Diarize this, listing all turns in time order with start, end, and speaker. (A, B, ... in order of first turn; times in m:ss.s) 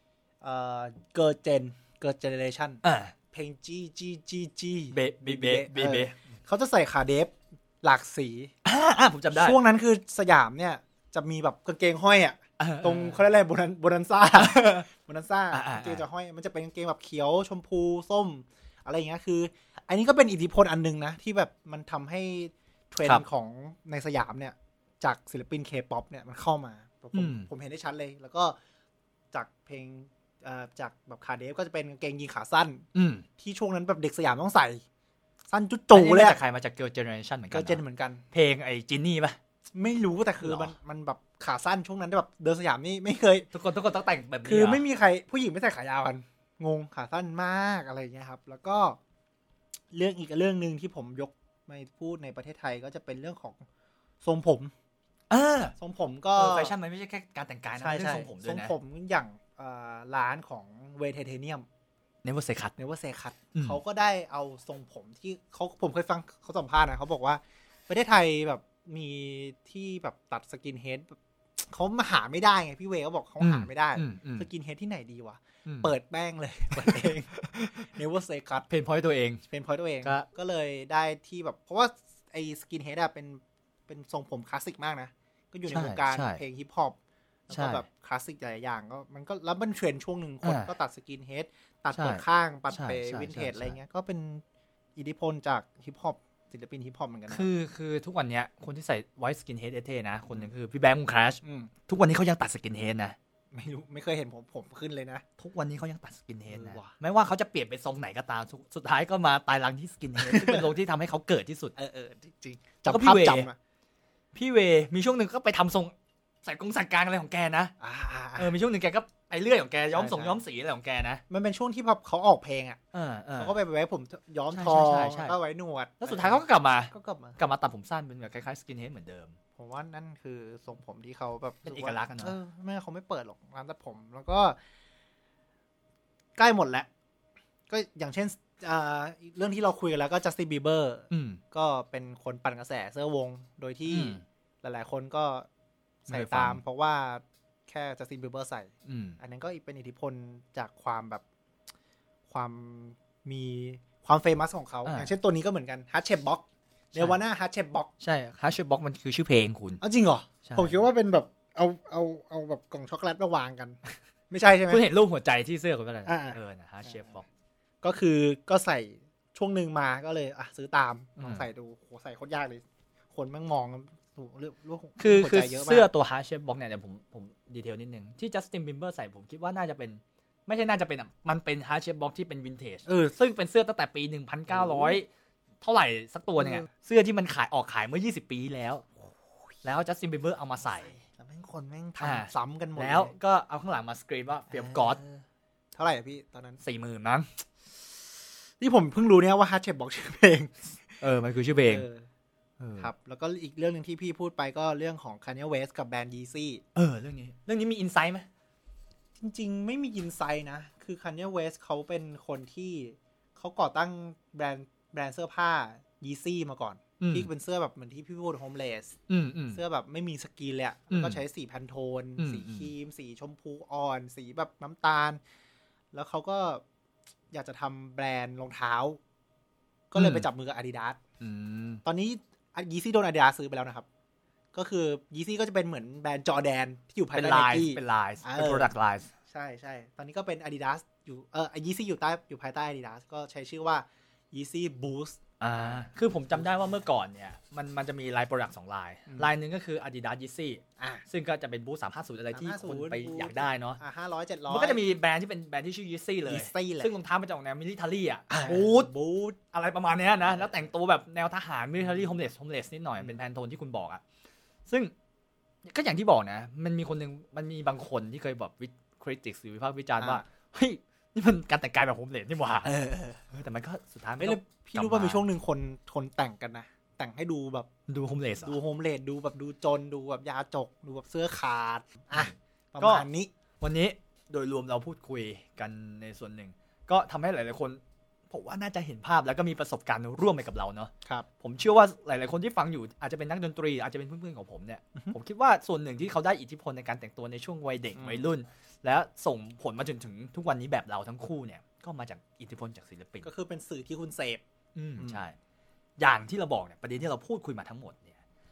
0:00.4-0:08.5 A
0:02.8-0:03.2 B
0:04.9-0:06.2 B
0:08.6-0:09.6 B
0:09.3-0:28.6 A
0:12.6-0:13.2 B
0:14.4-0:14.8 B
0:15.5-0:16.0 B
0:27.1-0:27.5 B
0:29.3-0:32.9 A
0:32.9-0:33.2 B
0:33.4-0:34.8 A
0:35.5-0:36.4 A
0:35.9-0:37.8 B
0:37.5-0:38.2 A
0:38.3-0:39.4 B
0:39.7-0:43.5 A
0:40.4-0:40.7 B
0:43.5-0:44.8 B
0:44.4-0:49.0 A
0:49.9-0:53.6 A
0:54.2-0:54.7 A
0:55.3-0:55.7 B
0:55.8-0:56.7 A
0:56.4-0:58.8 B
0:57.8-1:01.7 A
1:02.2-1:02.7 B
1:02.8-1:18.7 A
1:03.5-1:03.8 B
1:13.4-1:14.5 B
1:15.6-1:15.9 B
1:16.8-1:17.9 B
1:18.7-1:19.4 B
1:19.5-1:27.0 A
1:20.0-1:20.3 B
1:25.7-1:26.4 B
1:27.5-1:34.4 A
1:27.5-1:27.8 B
1:30.4-1:30.7 B
1:31.9-1:33.8 B
1:35.0-1:37.5 A
1:37.3-1:43.2 B
1:41.4-1:41.7 A
1:43.5-1:45.2 A
1:45.4-1:51.7 B
1:46.5-1:46.9 A
1:50.2-1:50.7 A
1:51.8-1:53.6 A
1:52.8-1:53.5 B
1:54.4-1:55.9 B
1:56.4-1:57.7 B
1:57.8-1:58.6 A
1:58.4-2:01.2 B
1:59.9-2:00.4 A
2:01.3-2:02.8 A
2:02.9-2:03.6 B
2:03.4-2:07.4 A
2:04.5-2:05.4 B
2:06.0-2:09.4 B
2:09.6-2:14.6 A
2:11.6-2:12.4 B
2:16.4-2:16.9 A
2:17.7-2:25.5 A
2:21.1-2:21.4 B
2:23.9-2:24.2 B
2:26.1-2:26.6 B
2:26.1-2:31.2 A
2:28.9-2:29.2 B
2:32.3-2:37.9 A
2:34.8-2:35.1 B
2:38.0-2:39.8 B
2:39.8-2:43.8 A
2:40.4-2:40.8 B
2:44.3-2:44.8 A
2:44.7-2:47.2 B
2:46.1-2:46.9 A
2:47.8-2:52.6 A
2:51.2-2:51.5 B
2:53.1-2:55.9 A
2:55.0-3:05.1 B
3:02.9-3:03.2 A
3:04.5-3:05.0 A
3:05.6-3:08.9 B
3:06.4-3:06.6 A
3:09.6-3:10.9 B
3:10.8-3:13.1 A
3:12.0-3:15.0 B
3:14.5-3:15.2 A
3:15.7-3:16.6 A
3:16.6-3:17.3 B
3:18.6-3:21.0 A
3:21.0-3:21.9 B
3:21.7-3:22.1 A
3:22.6-3:22.9 B
3:22.8-3:26.6 A
3:26.8-3:28.3 B
3:29.2-3:39.0 A
3:37.0-3:37.3 B
3:39.1-3:39.6 B
3:39.5-3:45.2 A
3:40.9-3:41.2 B
3:42.2-3:42.7 B
3:45.9-3:46.6 A
3:47.3-3:49.0 A
3:49.9-3:51.0 A
3:50.0-3:50.3 B
3:51.2-3:51.8 B
3:51.8-3:53.9 A
3:54.5-3:58.7 A
3:57.2-3:59.1 B
3:59.3-4:05.8 A
4:05.4-4:13.8 B
4:10.8-4:11.0 A
4:12.3-4:14.8 A
4:14.5-4:18.9 B
4:16.3-4:16.9 A
4:18.3-4:19.4 A
4:19.5-4:24.0 B
4:24.7-4:24.9 B
4:25.7-4:32.8 B
4:30.0-4:30.2 A
4:32.6-4:33.2 A
4:33.3-4:35.2 B
4:34.2-4:37.7 A
4:37.9-4:38.6 B
4:38.4-4:43.3 A
4:42.1-4:43.1 B
4:43.6-5:03.3 B
4:58.0-4:58.2 A
5:03.2-5:04.4 A
5:04.8-5:05.4 B
5:06.0-5:08.2 B